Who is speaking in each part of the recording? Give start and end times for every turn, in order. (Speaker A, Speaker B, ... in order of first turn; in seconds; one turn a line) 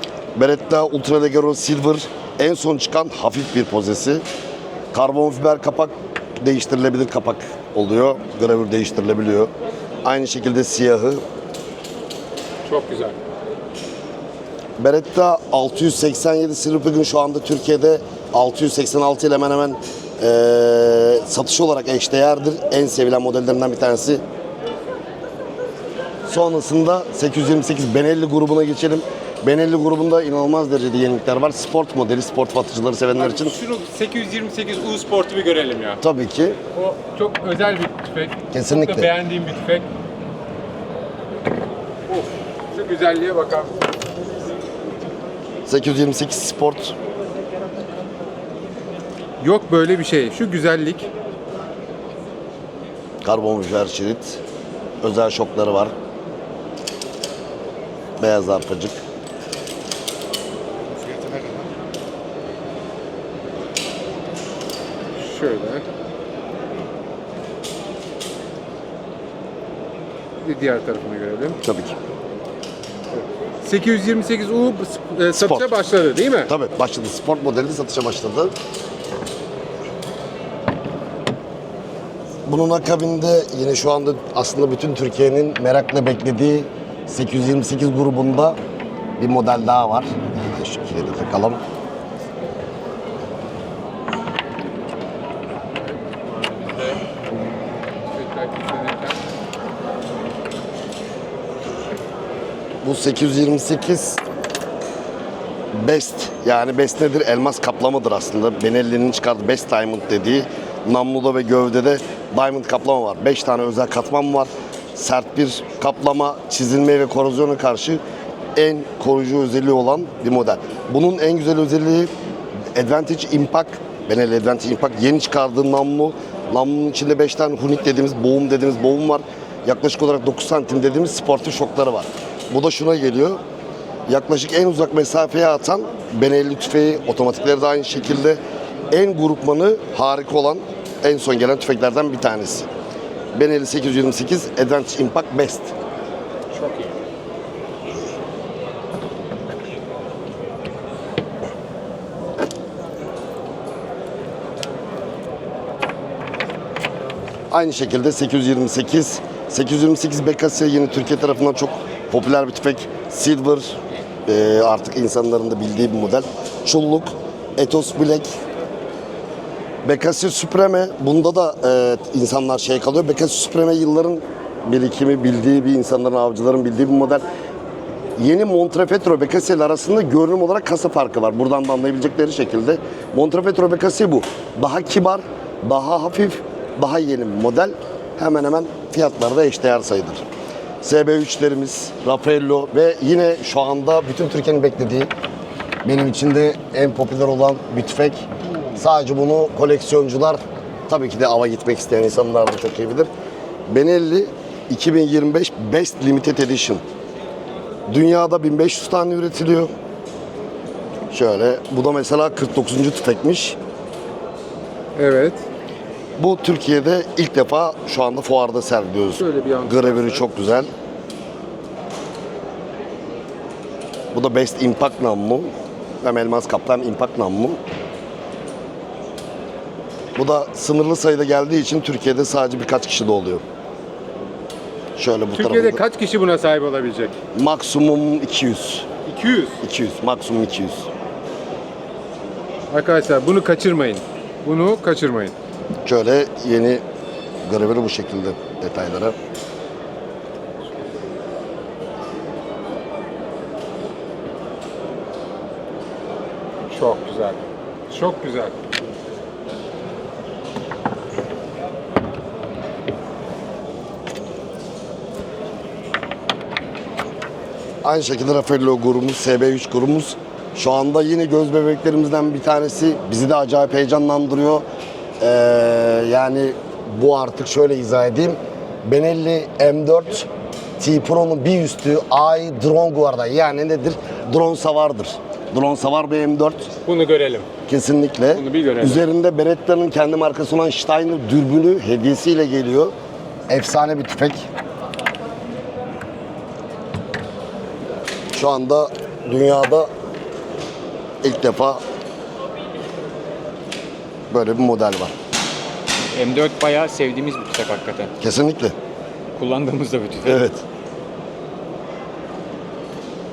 Speaker A: 0.3-4.2
Speaker A: 4.9-9.5
Speaker A: 10.0-11.2
Speaker B: 12.7-13.2
Speaker A: 14.8-24.2
Speaker A: 26.3-33.6
Speaker B: 33.2-36.0
Speaker A: 36.0-36.6
Speaker B: 36.7-39.9
Speaker A: 38.5-39.1
Speaker B: 42.1-43.8
Speaker A: 45.7-46.9
Speaker B: 49.4-51.1
Speaker A: 53.2-54.4
Speaker A: 55.0-55.9
Speaker A: 58.2-59.0
Speaker B: 65.2-65.8
Speaker B: 70.4-71.6
Speaker A: 71.6-72.0
Speaker B: 73.1-76.5
Speaker A: 75.3-75.7
Speaker A: 76.5-78.5
Speaker A: 82.5-88.6
Speaker A: 89.2-91.6
Speaker B: 96.3-97.0
Speaker B: 98.1-99.2
Speaker A: 102.8-104.2
Speaker A: 105.7-118.0
Speaker A: 118.6-122.1
Speaker A: 122.7-133.4
Speaker A: 134.1-138.4
Speaker A: 138.9-142.7
Speaker A: 143.3-145.7
Speaker B: 146.5-146.9
Speaker A: 157.5-168.3
Speaker A: 169.8-177.2
Speaker A: 178.2-190.2
Speaker A: 190.8-195.1
Speaker A: 195.8-198.2
Speaker A: 198.8-203.1
Speaker A: 203.7-206.8
Speaker A: 207.9-209.7
Speaker A: 211.1-213.6
Speaker B: 215.0-215.4
Speaker A: 216.2-220.7
Speaker B: 219.2-220.2
Speaker A: 224.1-225.5
Speaker A: 226.0-227.6
Speaker A: 230.2-233.4
Speaker A: 235.0-235.8
Speaker B: 235.3-237.2
Speaker A: 237.3-238.9
Speaker B: 239.1-239.6
Speaker A: 239.6-240.9
Speaker B: 242.7-245.3
Speaker A: 245.8-246.8
Speaker A: 247.4-249.2
Speaker B: 256.7-258.5
Speaker A: 267.8-274.6
Speaker A: 275.2-280.3
Speaker A: 280.8-286.7
Speaker B: 286.9-287.5
Speaker A: 287.7-292.9
Speaker B: 288.3-289.1
Speaker A: 293.5-294.4
Speaker A: 298.3-299.9
Speaker A: 301.2-301.8
Speaker A: 304.3-305.1
Speaker C: 306.1-308.1
Speaker A: 308.2-308.8
Speaker C: 309.4-310.4
Speaker A: 310.2-310.6